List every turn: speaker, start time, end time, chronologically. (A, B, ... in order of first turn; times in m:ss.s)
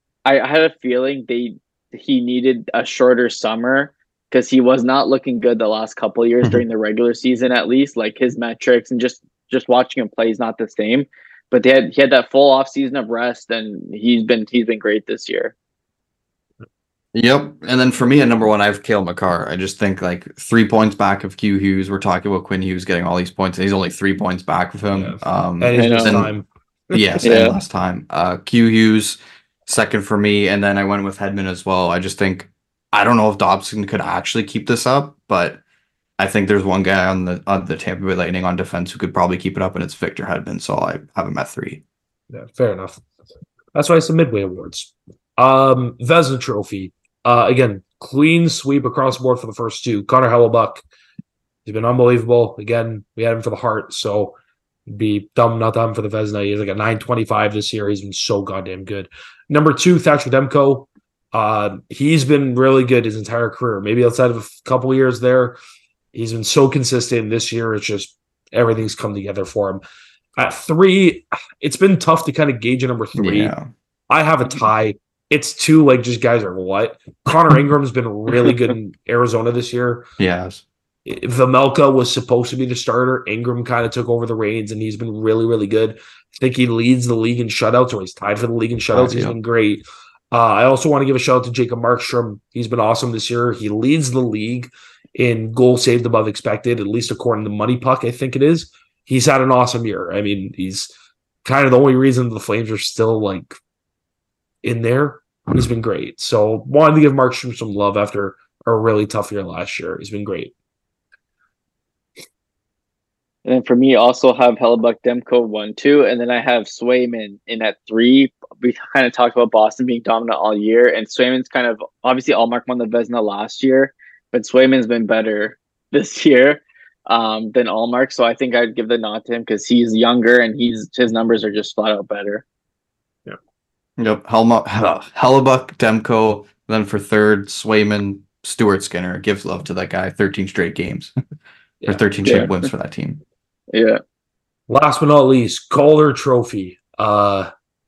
0:00.3-0:15.5 A
0:17.1-0:26.3 B
0:24.9-0:27.2 C
0:25.8-0:26.3 A
0:26.9-0:35.6 B
0:27.2-0:27.6 A
0:36.2-0:41.8 B
0:42.3-0:43.0 C
0:43.8-0:50.8 C
0:51.6-1:05.6 C
1:06.1-1:09.8 C
1:10.4-1:13.5 C
1:13.2-1:13.7 B
1:14.1-1:20.1 C
1:20.2-1:20.6 B
1:21.0-1:40.9 C
1:28.9-1:29.4 B
1:41.4-1:43.6 C
1:44.6-1:50.5 C
1:53.4-2:12.4 A
2:14.0-2:21.1 B
2:21.8-2:22.1 C
2:21.9-2:23.2 B
2:22.2-2:22.5 A
2:23.7-2:24.0 A
2:24.7-2:27.5 C